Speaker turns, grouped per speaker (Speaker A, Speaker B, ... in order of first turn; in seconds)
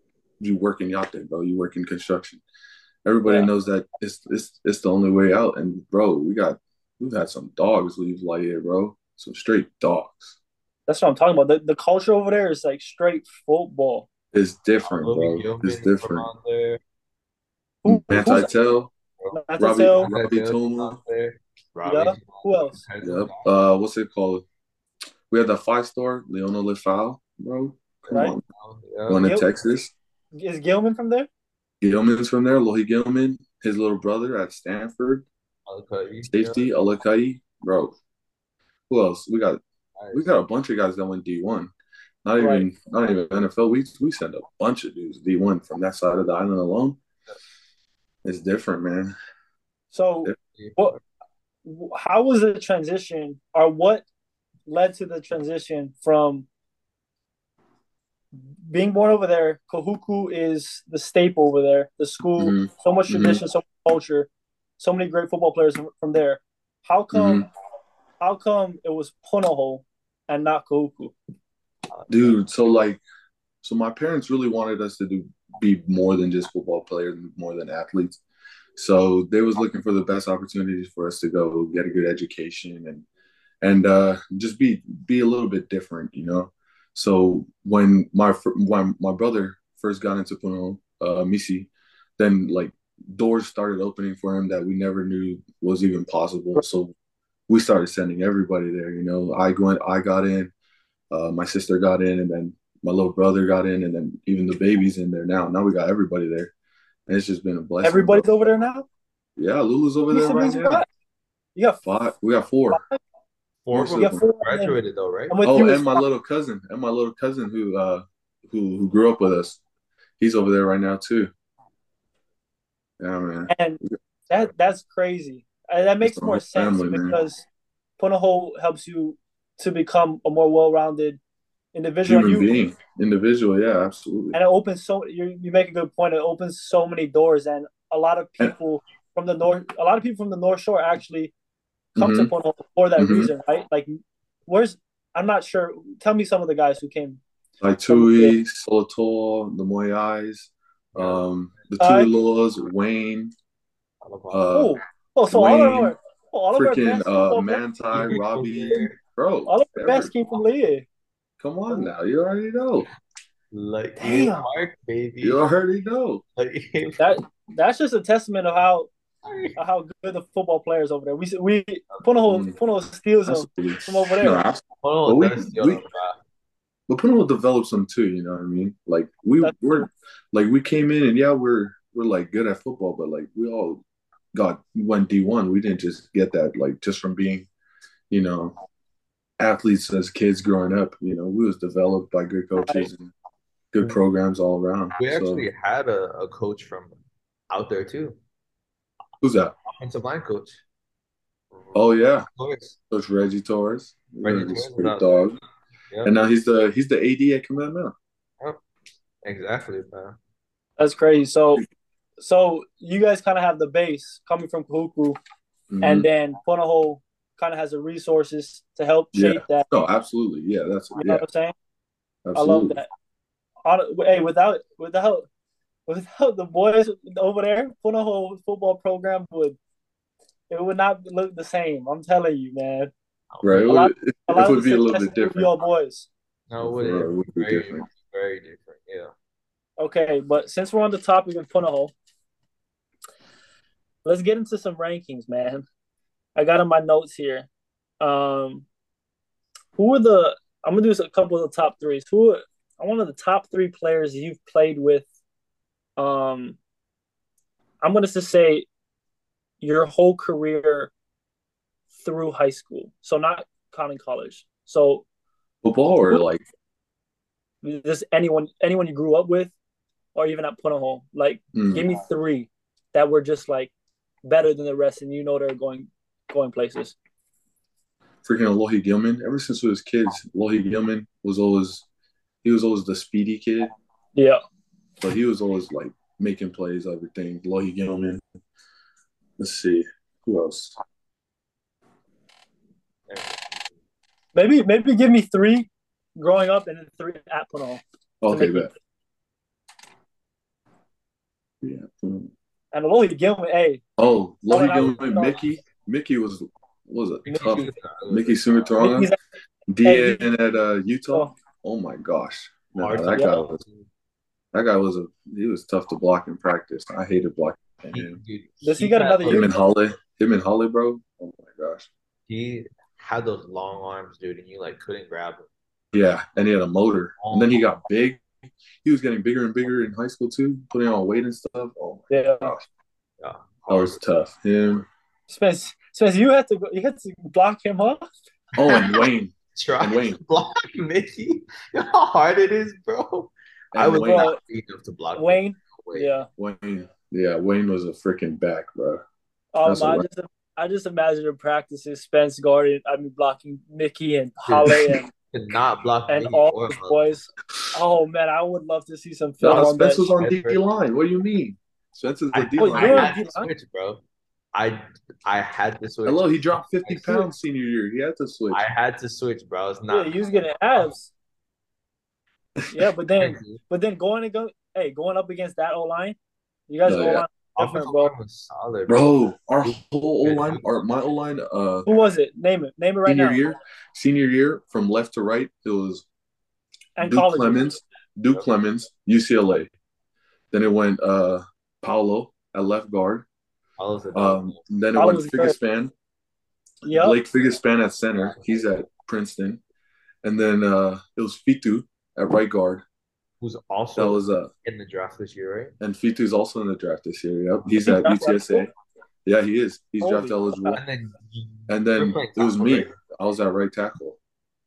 Speaker A: 0.4-2.4, 3.0-10.4, 14.3-16.3, 17.9-18.9, 19.6-21.0, 23.0-24.4, 25.3-28.4, 29.1-29.9, 31.8-35.3, 36.3-38.0, 38.9-39.6, 40.1-41.7, 42.2-47.0, 48.2-49.1, 62.4-63.4, 67.1-67.5, 72.1-73.0, 73.6-78.2, 78.8-83.1, 83.6-96.9, 97.5-100.5, 101.1-106.5, 107.1-108.3, 109.4-110.9, 111.8-112.8, 113.7-114.2, 115.4-119.6, 120.2-121.3, 123.0-124.0, 126.0-127.2, 132.0-134.4, 142.0-142.3, 143.0-143.3, 147.6-153.3, 154.3-154.8, 155.3-155.9, 156.6-160.1, 161.4-162.9, 165.2-166.2, 172.3-172.6, 173.3-175.8, 176.9-183.8, 184.3-187.5, 188.1-188.6, 189.4-193.1, 193.7-195.4, 199.2-199.5, 201.7-202.3, 202.9-205.4, 206.1-207.9, 215.7-216.1, 219.1-221.2, 222.2-222.8, 233.4-235.5, 236.6-237.8, 265.6-266.4, 271.5-271.9, 278.2-281.9, 282.4-283.7, 285.0-288.2, 289.4-290.8, 298.2-298.7, 301.6-302.3, 304.0-309.1, 309.7-313.6, 314.5-318.2, 319.2-321.9, 325.9-328.2, 328.8-332.6, 333.7-334.9, 338.6-340.2, 343.7-344.3, 346.4-349.0, 349.6-350.1, 359.4-363.2, 366.1-368.6, 376.9-377.3, 378.9-381.9, 383.1-386.1, 387.0-389.7, 390.5-393.3, 394.1-395.9, 396.9-399.6, 400.2-402.8, 404.0-404.5, 405.8-408.7, 409.2-410.8, 411.7-414.2
Speaker B: 10.9-14.1, 17.8-18.5, 19.3-20.1, 21.9-22.8, 30.4-31.3, 42.4-42.7, 49.9-51.0, 51.6-54.0, 54.7-56.5, 58.6-67.5, 68.2-71.1, 107.8-108.9, 110.1-110.9, 111.6-111.8, 112.7-113.0, 113.9-114.8, 115.3-116.0, 123.5-127.5, 128.0-131.2, 131.7-132.5, 134.3-141.3, 142.0-147.2, 147.9-148.4, 151.8-152.1, 154.5-157.8, 159.5-160.9, 164.0-164.5, 167.0-168.9, 169.6-174.5, 179.4-179.9, 210.8-211.6, 212.2-215.2, 215.8-219.7, 220.9-221.5, 222.3-222.9, 223.7-225.3, 225.9-229.6, 230.5-232.9, 233.5-236.1, 239.8-241.9, 244.1-245.7, 246.3-247.5, 248.0-248.7, 249.8-255.1, 256.0-256.6, 257.8-258.7, 259.6-260.9, 262.0-265.1, 267.6-269.5, 270.1-273.7, 274.2-277.0, 284.1-284.4, 294.3-298.7, 302.7-303.8, 304.5-305.4, 308.8-309.2, 309.8-310.3, 318.6-319.6, 332.1-332.6, 335.3-338.1, 344.0-344.4, 345.1-346.3, 349.6-355.1, 356.1-360.1, 362.6-363.5, 369.9-371.1, 372.7-376.2, 376.7-378.1, 381.9-383.4, 387.0-387.7, 394.9-395.6, 396.8-397.2, 407.8-408.6, 410.0-410.8
Speaker C: 14.8-16.8, 19.9-23.6, 28.1-29.3, 35.7-36.6, 40.0-40.3, 71.9-72.3, 113.7-115.4, 150.9-151.2, 154.0-154.5, 157.9-159.0, 163.5-165.4, 166.4-167.1, 169.2-169.6, 174.8-176.2, 195.0-196.9, 197.5-198.2, 199.7-200.6, 201.5-202.8, 204.2-205.2, 209.2-210.2, 233.3-233.7, 236.5-239.1, 293.1-293.4, 307.3-308.7, 312.8-313.8, 317.9-319.5, 322.3-325.5, 327.2-327.6, 333.2-334.0, 338.6-346.1, 354.5-357.0, 359.5-360.6, 362.3-364.0, 364.5-367.3, 368.5-370.8, 373.2-373.6, 377.6-380.6, 393.8-394.6, 403.4-405.7, 410.7-412.9